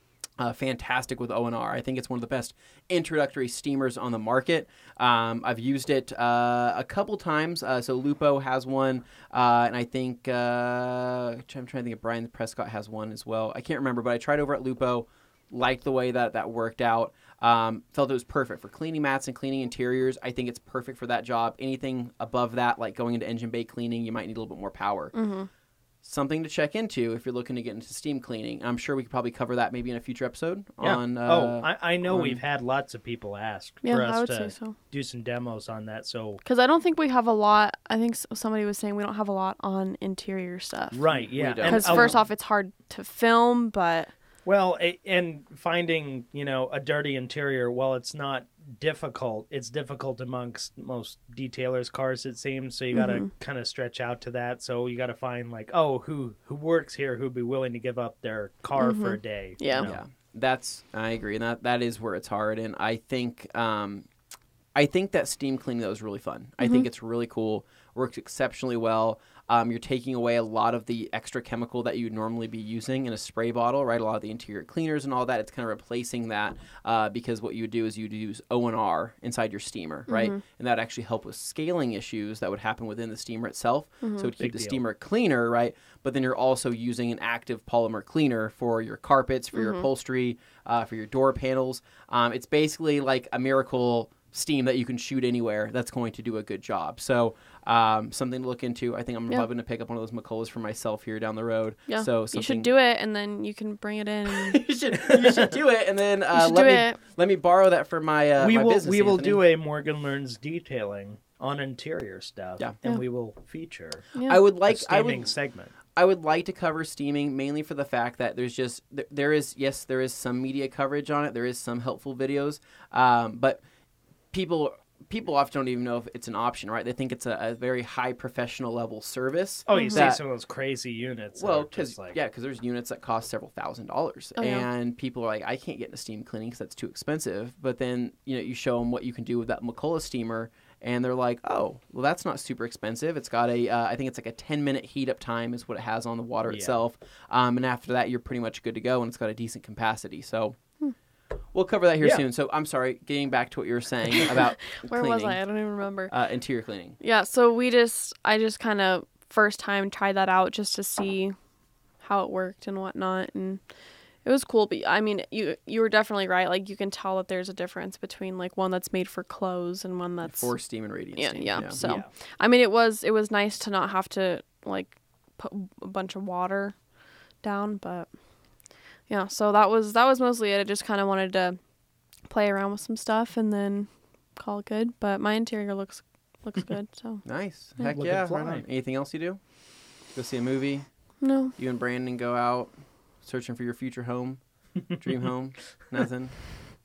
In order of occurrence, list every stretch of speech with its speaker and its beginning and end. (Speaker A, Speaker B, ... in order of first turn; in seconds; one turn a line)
Speaker A: 0.4-25.1
Speaker B: 25.1-25.5
Speaker A: 26.0-32.4
Speaker C: 30.8-36.4
Speaker B: 33.8-34.8
Speaker B: 36.4-44.1
Speaker C: 40.9-42.2
Speaker A: 41.1-42.1
Speaker C: 44.4-60.0
Speaker B: 52.9-53.3
Speaker B: 58.8-59.9
Speaker A: 59.8-64.1
Speaker A: 64.7-102.7
Speaker B: 80.1-80.4
Speaker B: 84.0-84.3
Speaker C: 84.4-84.8
Speaker B: 89.5-89.9
Speaker B: 101.9-104.6
Speaker A: 104.3-109.4
Speaker B: 106.3-107.0
Speaker C: 108.4-114.0
Speaker B: 114.1-114.4
Speaker A: 114.2-115.3
Speaker C: 114.6-115.7
Speaker A: 116.0-123.6
Speaker A: 124.3-130.2
Speaker C: 129.7-132.2
Speaker B: 129.7-130.1
Speaker A: 131.4-150.6
Speaker B: 134.4-134.7
Speaker C: 146.5-146.8
Speaker A: 151.5-155.4
Speaker B: 154.2-156.1
Speaker A: 156.1-157.0
Speaker B: 157.0-161.3
Speaker B: 162.0-163.7
Speaker B: 164.2-176.8
Speaker A: 170.2-171.8
Speaker C: 171.8-172.1
Speaker B: 177.4-178.2
Speaker B: 179.1-181.6
Speaker B: 182.2-188.0
Speaker A: 187.2-196.6
Speaker C: 187.9-188.6
Speaker B: 191.2-191.5